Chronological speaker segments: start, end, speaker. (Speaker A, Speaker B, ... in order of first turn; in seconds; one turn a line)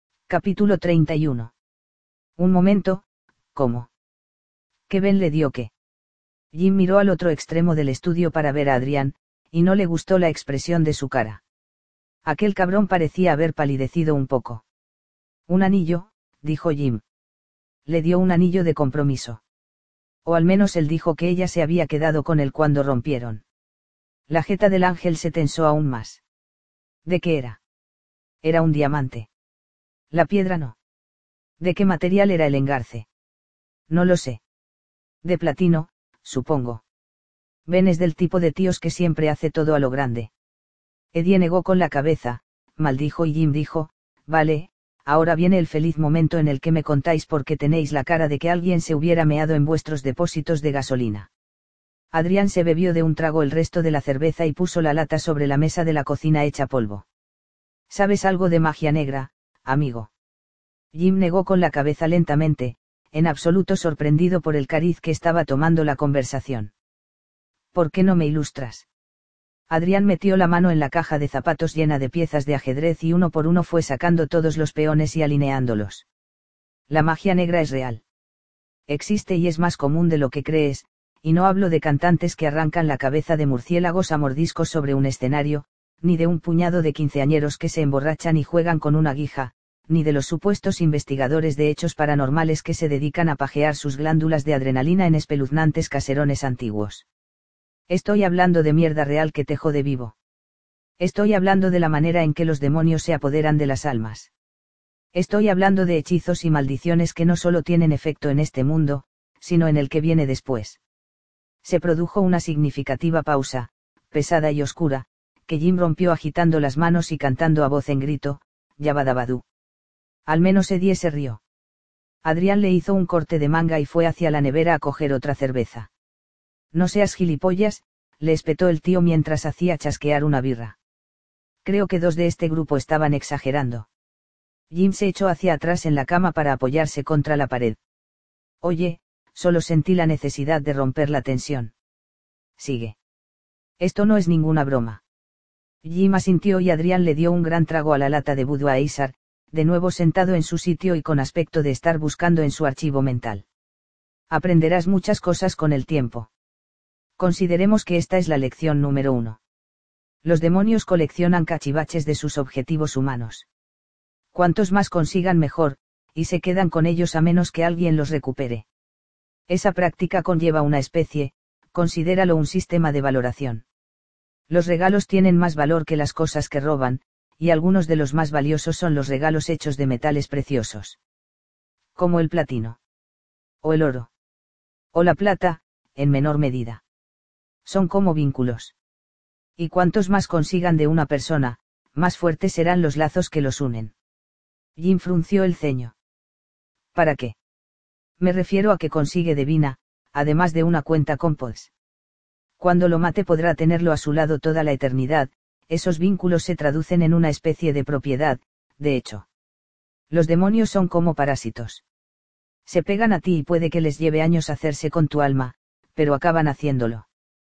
Speaker A: 0.3-1.5
Speaker A: 2.4-3.9
Speaker A: 4.9-5.7
Speaker A: 6.5-11.4
Speaker A: 12.2-14.6
Speaker A: 15.5-17.0
Speaker A: 17.9-19.4
Speaker A: 20.2-23.4
Speaker A: 24.3-26.2
Speaker A: 27.0-27.6
Speaker A: 28.4-29.3
Speaker A: 30.1-30.8
Speaker A: 31.6-33.1
Speaker A: 33.9-34.4
Speaker A: 35.2-36.8
Speaker A: 37.7-40.3
Speaker A: 41.1-51.3
Speaker A: 52.1-57.0
Speaker A: 57.9-60.1
Speaker A: 60.9-66.7
Speaker A: 67.7-68.8
Speaker A: 69.7-76.0
Speaker A: 76.9-78.0
Speaker A: 78.9-97.0
Speaker A: 97.9-100.2
Speaker A: 101.0-104.3
Speaker A: 105.1-110.8
Speaker A: 111.6-119.4
Speaker A: 120.2-121.4
Speaker A: 122.2-125.9
Speaker A: 126.7-130.8
Speaker A: 131.6-133.9
Speaker A: 134.7-137.8
Speaker A: 138.6-141.7
Speaker A: 142.6-142.9
Speaker A: 143.8-145.0
Speaker A: 145.8-153.4
Speaker A: 154.3-156.3
Speaker A: 157.2-159.4
Speaker A: 160.2-163.5
Speaker A: 164.3-168.6
Speaker A: 169.5-173.6
Speaker A: 174.5-181.0
Speaker A: 181.9-182.8
Speaker A: 183.6-184.1
Speaker A: 184.9-186.8
Speaker A: 187.6-188.7
Speaker A: 189.6-193.9
Speaker A: 194.8-195.9
Speaker A: 196.9-197.3
Speaker A: 198.2-201.7
Speaker A: 202.6-209.2
Speaker A: 210.1-211.8
Speaker A: 212.7-217.1